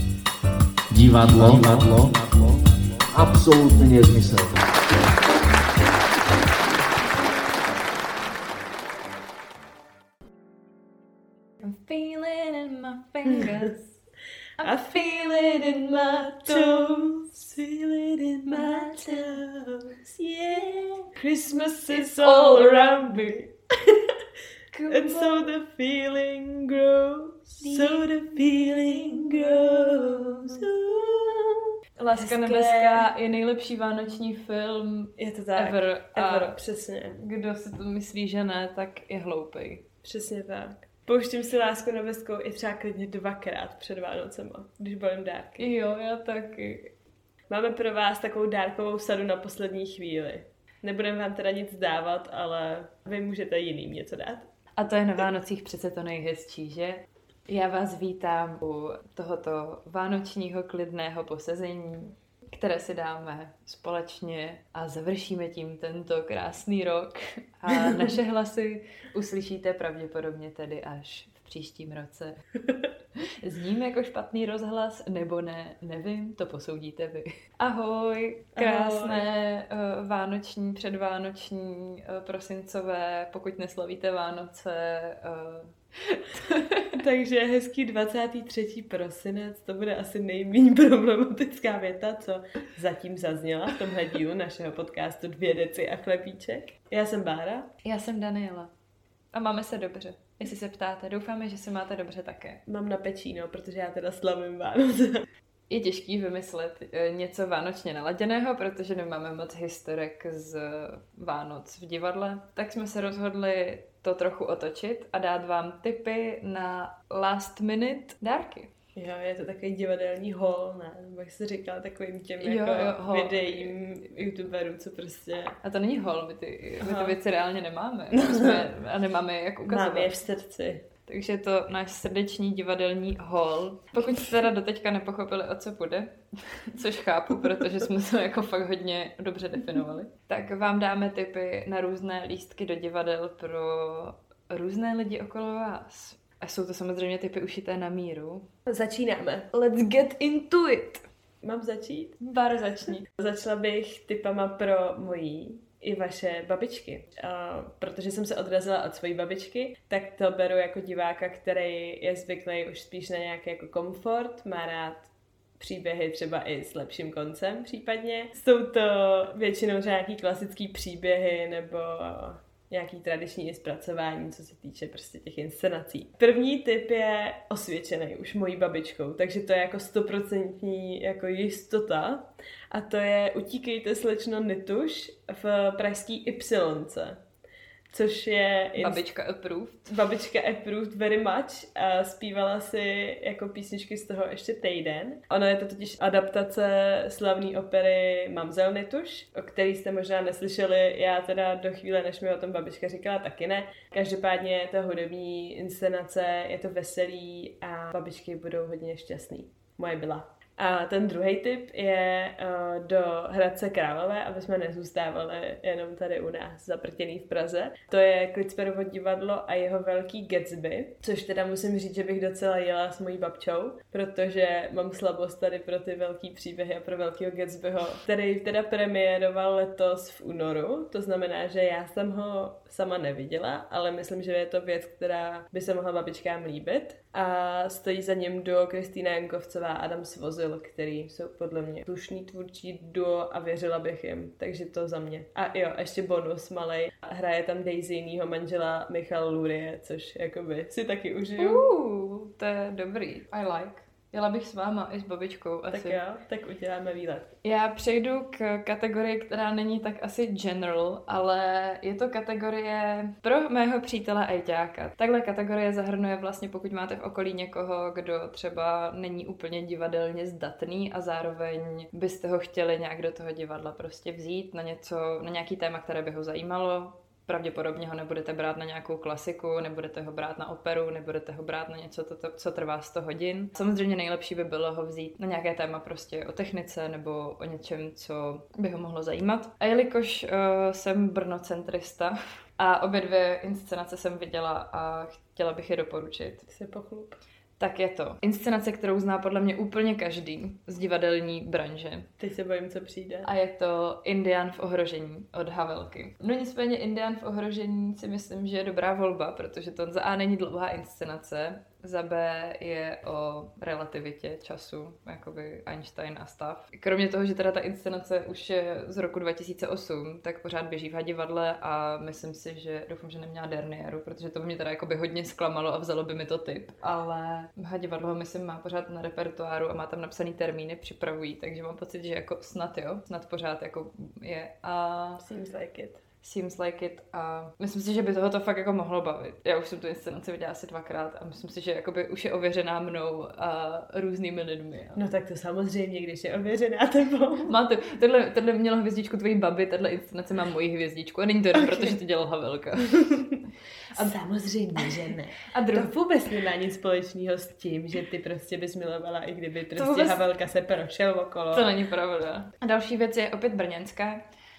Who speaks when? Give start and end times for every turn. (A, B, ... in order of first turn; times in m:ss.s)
0:00.9-0:04.6 A
0:11.6-0:14.0 B
0:14.6-0:17.2 B
0:14.6-0:24.1 C
0:18.5-0:19.4 B
0:20.4-0:21.1 B
0:21.9-0:23.3 B
0:24.7-0:25.5 B
0:24.9-0:33.1 C
0:27.6-0:30.7 B
0:32.0-0:39.8 B
0:35.2-0:37.2 C
0:40.0-0:45.6 C
0:45.6-0:46.9 B
0:47.5-0:54.4 C
0:54.8-1:12.4 B
1:13.2-1:27.0 B
1:18.6-1:19.2 C
1:26.9-1:37.7 C
1:37.8-1:38.7 B
1:39.3-1:42.6 B
1:42.7-1:45.3 C
1:45.7-1:58.7 B
1:59.0-2:05.6 C
2:02.4-2:03.7 B
2:05.6-2:10.1 B
2:06.8-2:07.2 C
2:08.1-2:08.6 C
2:09.7-2:10.8 C
2:11.1-2:28.5 B
2:28.7-2:29.5 C
2:29.5-2:31.0 B
2:31.4-2:32.2 C
2:32.2-2:33.0 B
2:32.9-3:07.2 C
3:07.9-3:09.0 C
3:08.8-3:10.0 B
3:09.9-4:11.6 C
4:11.4-4:16.0 B
4:15.7-4:17.3 C
4:17.4-4:56.4 B
4:56.5-4:57.2 C
4:57.6-5:02.1 B
5:02.2-5:03.3 C
5:03.2-5:35.2 B
5:35.2-5:36.0 C
5:36.2-5:45.0 B
5:45.0-5:47.5 C
5:47.5-5:53.3 B
5:51.5-5:52.0 C
5:53.9-6:01.7 C
5:54.8-5:55.9 B
5:59.8-6:00.2 B
6:01.5-6:04.2 B